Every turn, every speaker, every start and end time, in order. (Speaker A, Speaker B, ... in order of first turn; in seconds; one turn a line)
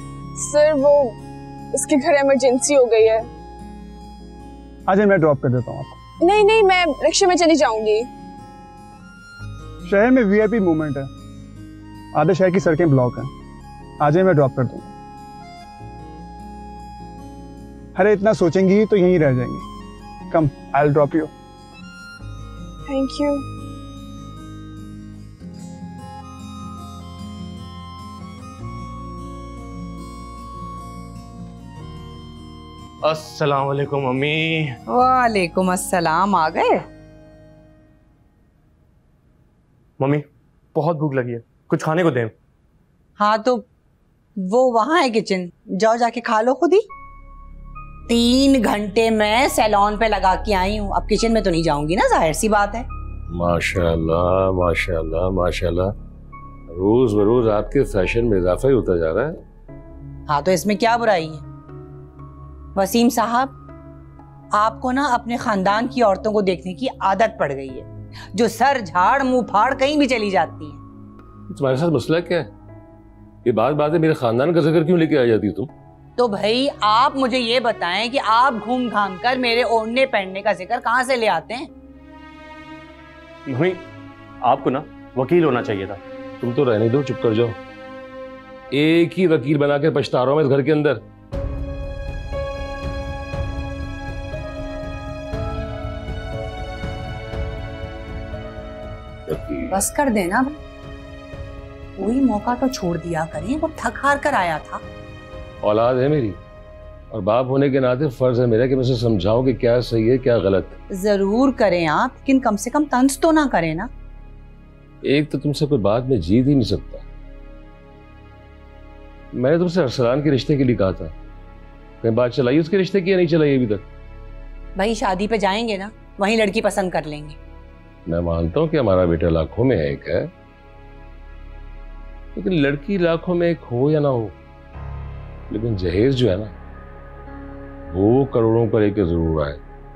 Speaker A: 0.4-1.1
Speaker A: 1.7-3.3
Speaker B: 4.9-6.0
Speaker A: 6.2-8.1
Speaker B: 9.9-11.1
Speaker B: 12.1-13.3
Speaker B: 14.0-14.9
Speaker B: 17.9-19.6
Speaker B: 20.3-21.3
Speaker A: 22.9-23.4
Speaker C: 33.0-34.8
Speaker D: 34.9-36.8
Speaker C: 40.0-42.3
Speaker D: 43.2-43.6
Speaker D: 44.4-46.8
Speaker D: 48.1-52.9
Speaker E: 53.3-55.9
Speaker E: 56.7-59.4
Speaker D: 60.3-61.4
Speaker D: 62.8-63.5
Speaker D: 64.5-70.8
Speaker E: 71.5-72.5
Speaker E: 73.4-75.7
Speaker D: 76.2-81.7
Speaker C: 83.5-83.8
Speaker C: 84.4-86.0
Speaker E: 86.4-87.6
Speaker E: 88.7-91.0
Speaker E: 99.3-99.8
Speaker D: 99.7-100.5
Speaker D: 102.0-104.8
Speaker E: 105.6-106.4
Speaker E: 107.1-110.8
Speaker D: 110.9-113.9
Speaker E: 115.0-117.0
Speaker E: 119.3-121.1
Speaker E: 122.0-123.8
Speaker D: 124.8-127.4
Speaker E: 128.1-130.3
Speaker E: 132.3-134.3
Speaker E: 135.5-136.5
Speaker E: 137.9-139.6